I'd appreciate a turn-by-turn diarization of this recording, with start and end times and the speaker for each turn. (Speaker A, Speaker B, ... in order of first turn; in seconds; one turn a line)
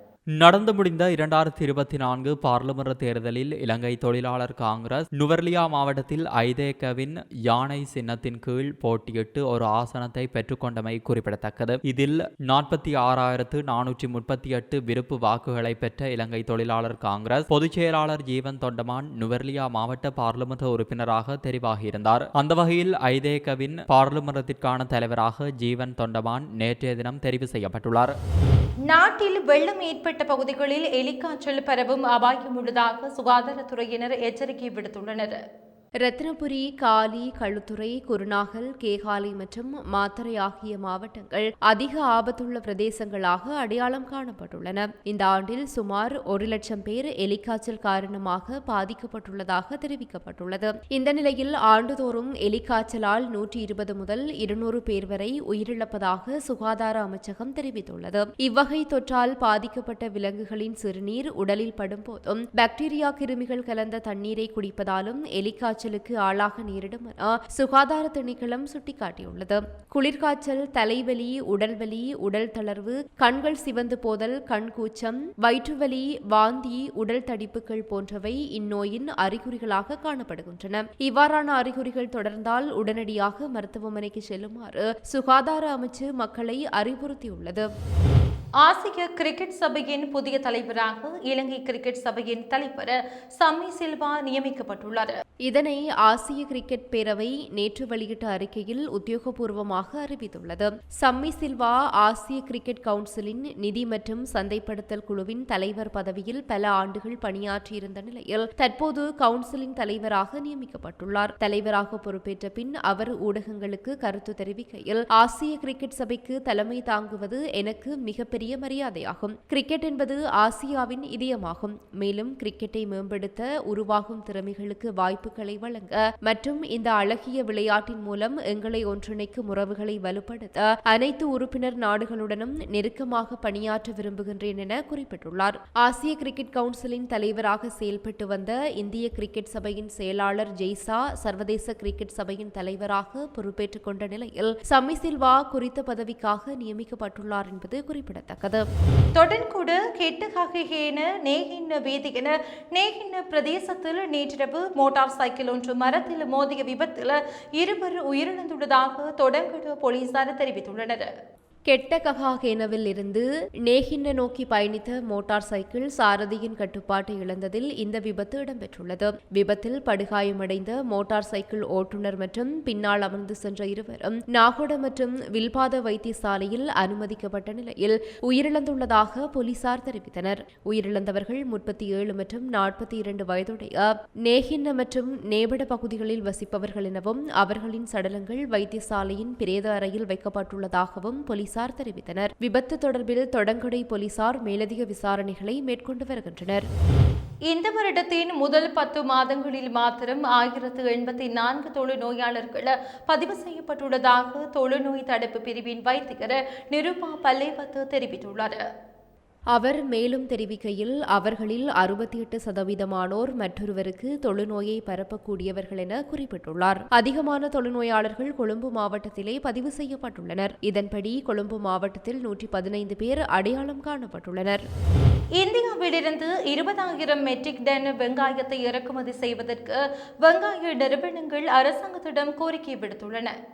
Speaker A: 0.4-28.1
Speaker B: 28.9-35.4
Speaker C: 36.0-87.7
Speaker B: 88.6-95.1
Speaker C: 95.5-148.6
Speaker B: 149.2-161.1
Speaker C: 161.7-196.6
Speaker B: 197.5-208.6
Speaker C: 209.5-224.6
Speaker B: 225.4-233.3